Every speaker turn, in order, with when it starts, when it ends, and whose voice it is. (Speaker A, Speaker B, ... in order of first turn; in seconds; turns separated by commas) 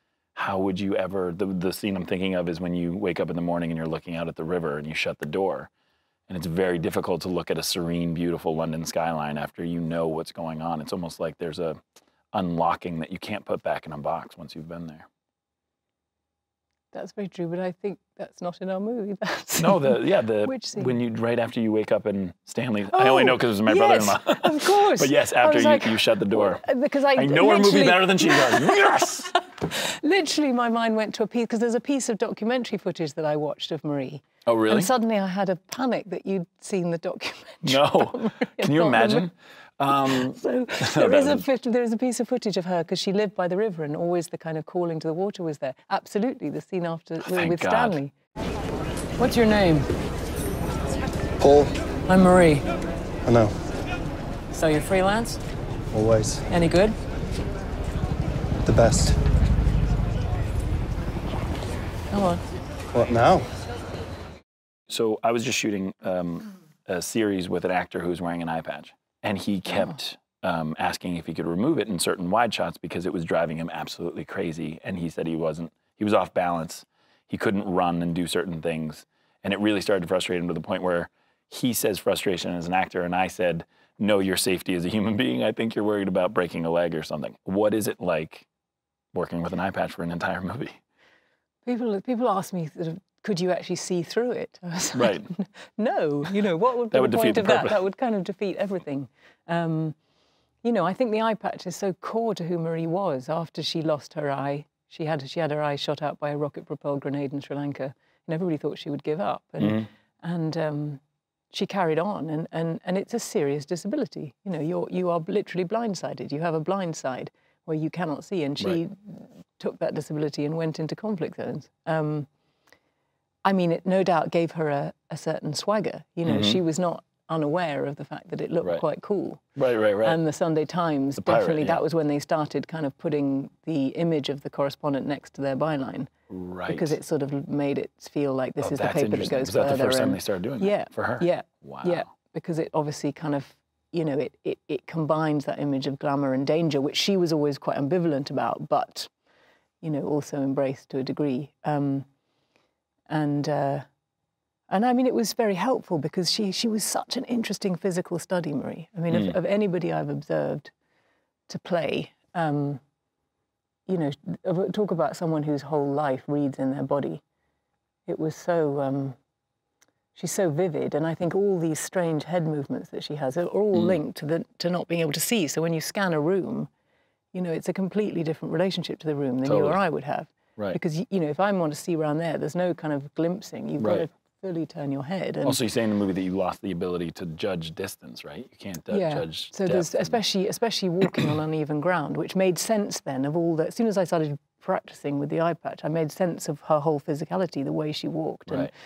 Speaker A: 0.3-5.7, Speaker A: 6.3-11.8, Speaker A: 12.3-15.1, Speaker B: 16.9-21.0, Speaker A: 19.6-26.6, Speaker B: 22.9-39.3, Speaker A: 27.1-29.3, Speaker A: 34.5-34.9, Speaker A: 37.6-41.4, Speaker B: 39.9-48.1, Speaker A: 47.2-48.0, Speaker B: 49.2-49.9, Speaker C: 51.4-51.7, Speaker B: 52.1-52.7, Speaker C: 53.3-53.5, Speaker B: 54.5-55.4, Speaker C: 55.9-56.5, Speaker B: 56.5-57.0, Speaker C: 58.7-59.2, Speaker B: 62.1-62.4, Speaker C: 62.9-63.5, Speaker A: 64.9-88.5, Speaker A: 89.1-90.8, Speaker B: 91.7-100.0, Speaker A: 94.9-95.3, Speaker A: 96.9-97.8, Speaker B: 100.6-122.3, Speaker A: 109.6-109.9, Speaker B: 123.5-129.4, Speaker A: 126.3-126.6, Speaker A: 129.6-130.2, Speaker B: 130.0-136.1, Speaker A: 131.2-131.8, Speaker A: 136.3-137.0, Speaker B: 136.7-149.1, Speaker A: 138.6-142.1, Speaker B: 149.8-152.1, Speaker B: 153.1-153.9, Speaker B: 154.7-160.7, Speaker B: 161.5-162.8, Speaker B: 163.9-167.2, Speaker B: 168.1-169.2, Speaker B: 170.2-176.7, Speaker A: 173.7-174.0, Speaker B: 177.3-185.6, Speaker A: 179.4-179.8, Speaker A: 183.8-184.1, Speaker A: 185.4-190.2, Speaker B: 188.9-198.7